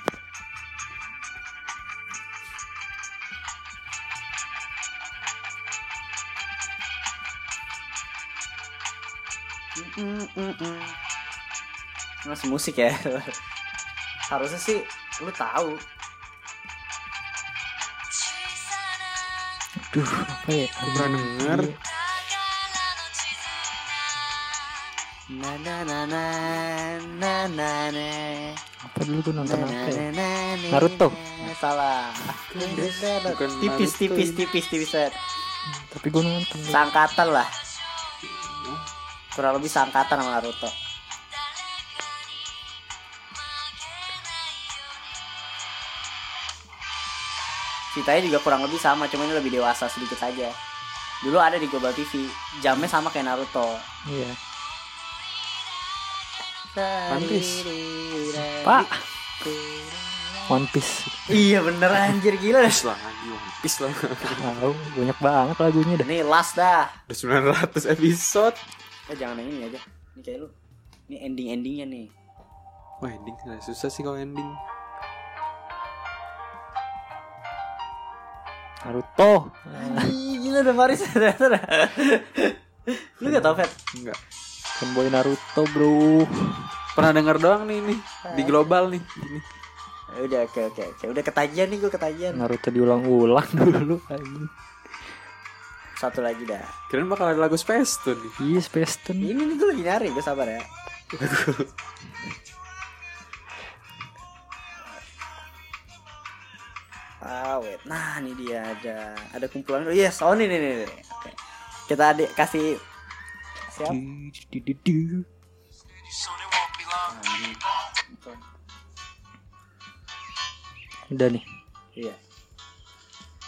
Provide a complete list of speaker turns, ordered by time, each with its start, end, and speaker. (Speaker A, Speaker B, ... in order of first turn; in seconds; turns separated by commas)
Speaker A: 9.8-11.0, Speaker A: 12.3-13.3, Speaker A: 14.3-15.8, Speaker B: 19.8-21.8, Speaker C: 20.9-21.7, Speaker A: 25.3-28.6, Speaker B: 28.9-30.1, Speaker A: 29.4-35.1, Speaker B: 30.7-31.5, Speaker C: 32.5-34.5, Speaker B: 35.7-36.8, Speaker A: 36.7-37.5, Speaker C: 38.2-38.9, Speaker A: 39.4-40.7, Speaker A: 47.9-50.5, Speaker A: 51.2-53.8, Speaker B: 54.1-54.4, Speaker A: 56.6-60.5, Speaker C: 57.1-57.7, Speaker B: 58.6-58.9, Speaker B: 60.5-61.3, Speaker A: 61.3-62.8, Speaker C: 62.7-64.5, Speaker B: 64.3-66.1, Speaker A: 66.0-66.9, Speaker C: 67.1-68.6, Speaker A: 69.1-70.5, Speaker A: 71.1-72.1, Speaker C: 73.0-74.6, Speaker B: 78.8-80.1, Speaker A: 79.8-83.7, Speaker B: 83.2-83.5, Speaker C: 83.9-84.2, Speaker B: 84.8-86.7, Speaker C: 87.0-89.5, Speaker A: 88.2-88.7, Speaker A: 90.1-92.4, Speaker B: 92.3-94.5, Speaker A: 96.0-96.7, Speaker C: 96.9-98.4, Speaker B: 98.4-99.3, Speaker A: 99.2-100.7, Speaker C: 101.1-101.7, Speaker A: 107.2-111.4, Speaker A: 111.9-112.8, Speaker A: 113.7-114.0, Speaker B: 113.9-115.3, Speaker A: 116.9-118.4, Speaker B: 121.1-121.4